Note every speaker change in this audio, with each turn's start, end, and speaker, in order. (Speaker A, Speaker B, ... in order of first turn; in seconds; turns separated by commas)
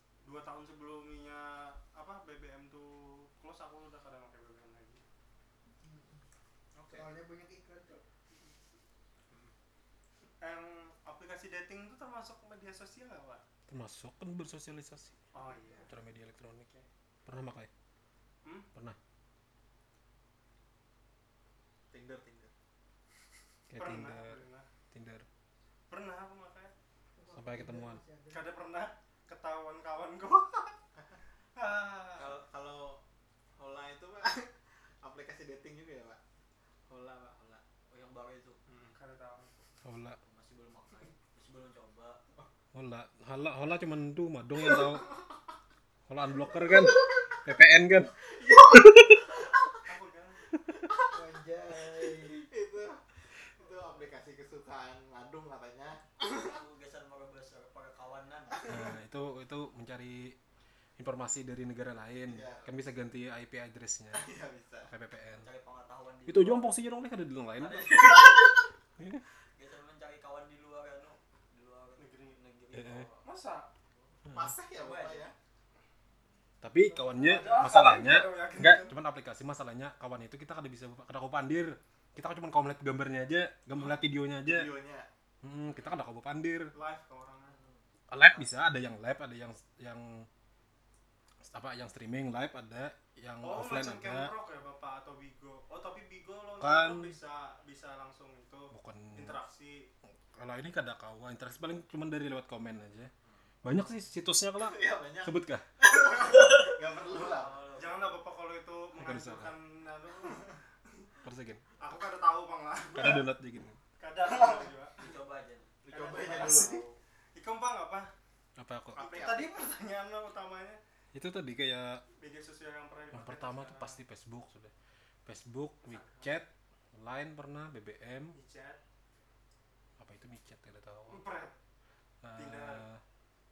Speaker A: 0.2-5.0, Speaker B: 5.8-6.2, Speaker C: 6.7-7.1, Speaker B: 6.9-8.0, Speaker C: 9.3-9.5, Speaker A: 10.4-13.4, Speaker D: 13.7-15.2, Speaker A: 15.3-15.9, Speaker D: 15.8-16.7, Speaker D: 17.2-17.7, Speaker A: 18.4-18.7, Speaker C: 21.9-22.5, Speaker D: 23.7-25.2, Speaker A: 23.7-24.7, Speaker A: 25.9-26.7, Speaker B: 27.1-28.5, Speaker D: 27.3-28.0, Speaker A: 28.3-30.8, Speaker A: 31.6-32.4, Speaker E: 32.2-32.4, Speaker C: 32.2-33.0, Speaker C: 33.5-36.2, Speaker C: 36.9-37.6, Speaker E: 37.9-38.6, Speaker C: 38.7-38.9, Speaker A: 38.9-39.5, Speaker D: 39.8-40.2, Speaker E: 40.2-42.2, Speaker D: 42.7-45.1, Speaker D: 46.1-49.3, Speaker C: 48.4-49.1, Speaker A: 49.9-50.4, Speaker C: 50.9-53.0, Speaker B: 51.1-52.5, Speaker C: 53.5-56.0, Speaker E: 56.3-58.6, Speaker D: 58.6-60.4, Speaker D: 61.0-64.3, Speaker C: 62.3-62.9, Speaker C: 64.1-64.9, Speaker D: 64.8-65.5, Speaker E: 65.4-66.7, Speaker D: 66.2-68.3, Speaker E: 67.6-68.7, Speaker D: 69.0-69.2, Speaker E: 69.5-73.2, Speaker A: 72.0-72.4, Speaker D: 72.7-73.1, Speaker A: 73.2-73.7, Speaker D: 74.2-74.5, Speaker C: 74.3-75.3, Speaker E: 74.7-75.3, Speaker D: 76.6-84.7, Speaker A: 76.9-79.0, Speaker C: 84.4-85.1, Speaker D: 85.4-86.7, Speaker A: 86.7-87.6, Speaker E: 87.5-87.8, Speaker D: 88.1-90.3, Speaker D: 91.5-94.3, Speaker A: 93.4-99.9, Speaker D: 96.6-97.1, Speaker D: 98.7-99.4, Speaker D: 100.3-103.1, Speaker D: 103.6-105.6, Speaker C: 104.6-107.5, Speaker E: 107.1-108.2, Speaker A: 107.1-110.6, Speaker D: 108.9-109.5, Speaker D: 111.2-111.6, Speaker A: 111.8-113.2, Speaker D: 112.9-113.8, Speaker A: 114.0-115.0, Speaker E: 114.4-116.9, Speaker C: 115.8-116.8, Speaker A: 115.9-116.8, Speaker A: 117.3-118.1, Speaker D: 118.6-119.0, Speaker C: 118.9-119.5, Speaker A: 119.0-120.8, Speaker D: 121.1-122.0, Speaker A: 122.2-124.0, Speaker D: 123.1-124.7, Speaker D: 125.2-128.3, Speaker E: 125.9-126.4, Speaker A: 128.3-128.8, Speaker D: 130.0-131.2, Speaker A: 131.1-131.6, Speaker D: 132.2-133.0, Speaker A: 132.3-132.8